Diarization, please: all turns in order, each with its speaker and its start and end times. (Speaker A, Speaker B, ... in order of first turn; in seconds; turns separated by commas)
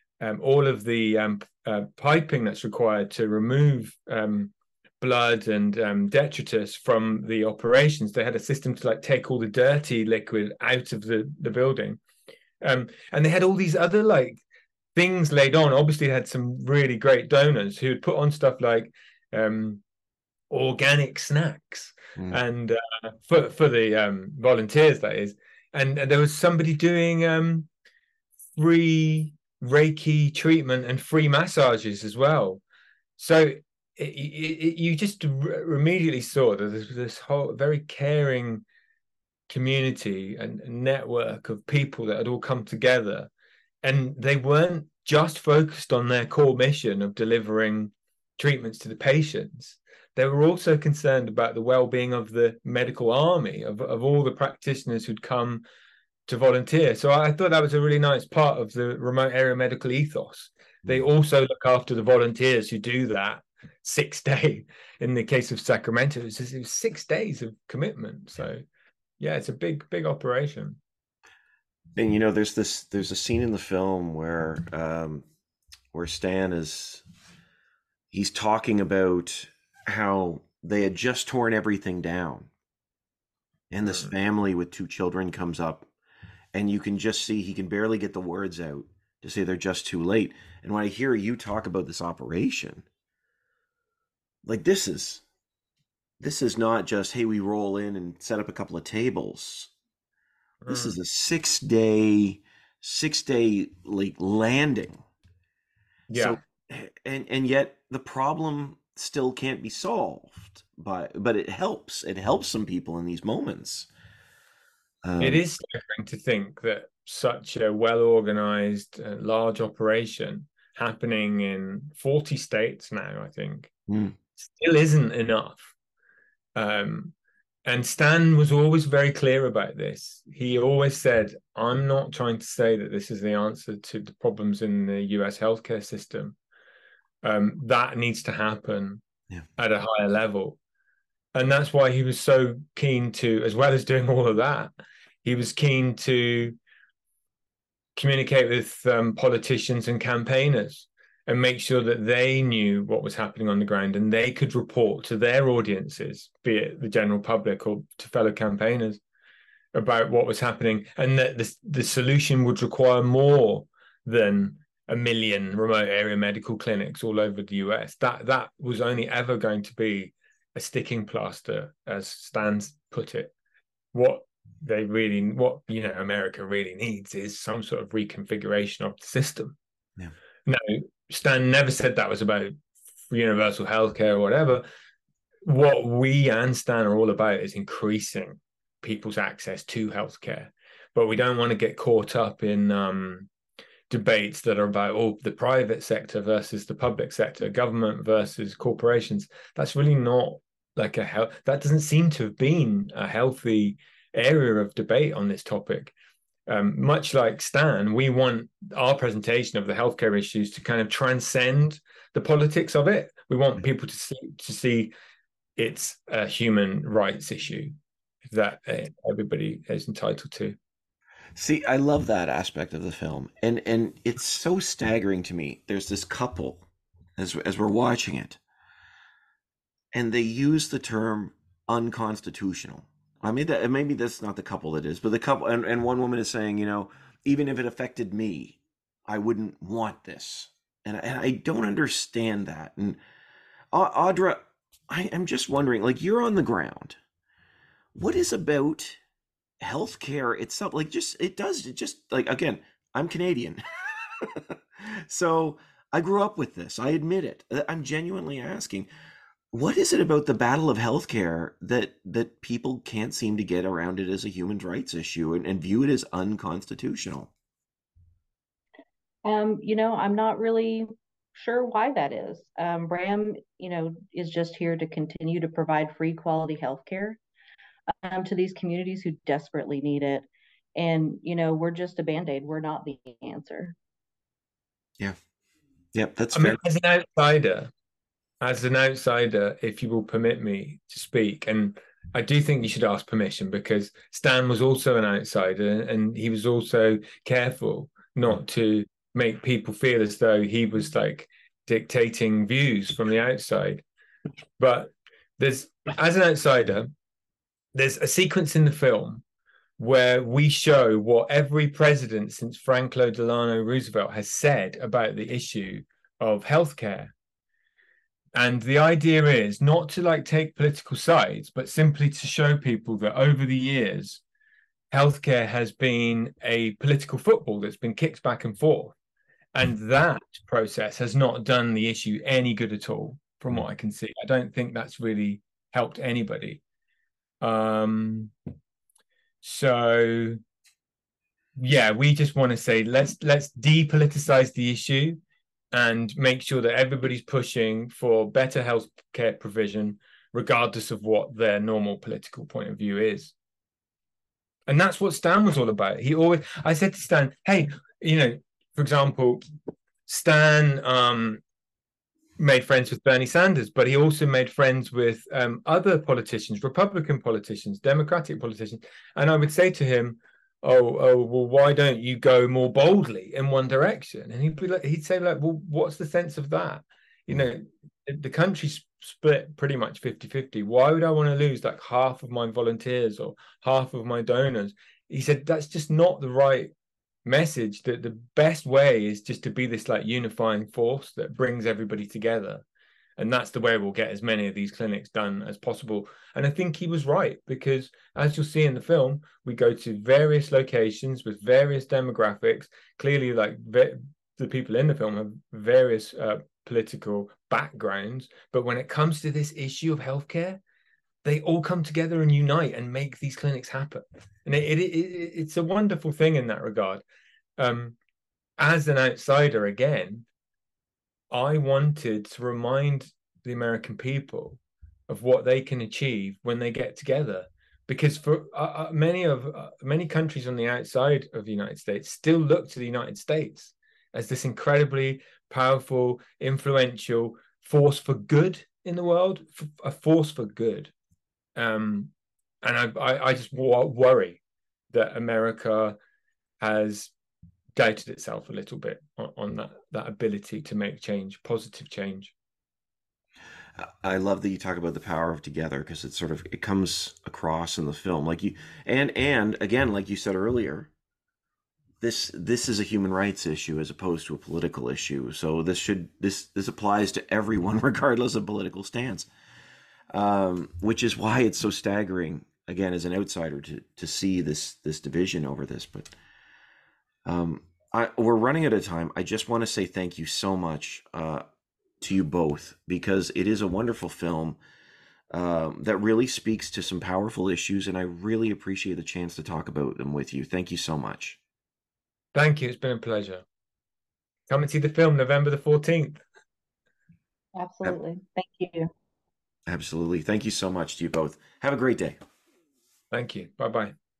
Speaker A: 0.2-12.0, Speaker A: 12.6-14.4, Speaker A: 14.9-19.8, Speaker A: 20.5-27.7, Speaker A: 28.6-32.6, Speaker A: 33.2-38.6, Speaker A: 39.5-43.3, Speaker A: 43.8-55.6, Speaker A: 56.3-68.6, Speaker A: 69.2-70.8, Speaker B: 72.0-75.2, Speaker B: 75.9-77.0, Speaker B: 78.1-82.5, Speaker B: 83.7-85.9, Speaker A: 83.8-84.1, Speaker B: 86.5-92.9, Speaker B: 94.5-95.2, Speaker B: 96.2-99.7, Speaker A: 100.6-101.0, Speaker B: 100.7-105.0, Speaker A: 106.1-106.4, Speaker B: 106.1-113.9, Speaker B: 115.0-115.4, Speaker A: 115.2-123.7, Speaker B: 123.9-124.2, Speaker A: 124.4-125.7, Speaker A: 126.5-127.1, Speaker A: 127.7-136.4, Speaker A: 137.2-139.0, Speaker A: 139.6-140.6, Speaker A: 141.3-144.7, Speaker A: 145.2-146.6, Speaker A: 148.0-159.0, Speaker A: 159.7-173.3, Speaker A: 173.9-179.6, Speaker A: 180.5-182.5, Speaker A: 183.1-184.7, Speaker A: 185.5-193.3, Speaker A: 193.9-205.9, Speaker A: 206.5-214.9, Speaker A: 215.6-217.7, Speaker A: 218.3-220.6, Speaker B: 221.4-226.7, Speaker B: 227.2-228.4, Speaker B: 229.9-243.0, Speaker B: 243.7-247.0, Speaker B: 247.9-249.0, Speaker B: 249.6-253.6, Speaker B: 254.2-258.9, Speaker B: 259.5-267.3, Speaker C: 269.2-277.2, Speaker C: 278.0-283.8, Speaker B: 285.9-286.6, Speaker A: 286.3-287.7, Speaker A: 288.4-303.8, Speaker A: 304.6-306.9, Speaker A: 307.8-309.2, Speaker A: 309.8-317.1, Speaker A: 318.4-324.2, Speaker A: 324.9-328.9, Speaker A: 329.5-336.6, Speaker A: 337.4-338.3, Speaker A: 339.4-340.4, Speaker A: 341.6-345.2, Speaker A: 345.7-353.3, Speaker A: 354.7-359.4, Speaker A: 360.1-361.4, Speaker A: 362.4-386.7, Speaker A: 387.2-392.6, Speaker A: 393.2-410.6, Speaker A: 411.2-417.0, Speaker A: 417.6-418.0, Speaker A: 418.6-420.3, Speaker A: 421.3-440.9, Speaker A: 441.6-442.1, Speaker A: 442.6-446.0, Speaker A: 446.6-447.1, Speaker A: 447.8-452.3, Speaker B: 453.8-460.9, Speaker B: 462.0-469.3, Speaker B: 470.1-476.1, Speaker B: 477.2-481.4, Speaker B: 482.0-484.6, Speaker B: 485.3-491.4, Speaker A: 492.3-493.4, Speaker A: 494.5-496.2, Speaker C: 497.6-498.9, Speaker B: 499.7-502.2, Speaker A: 503.1-503.9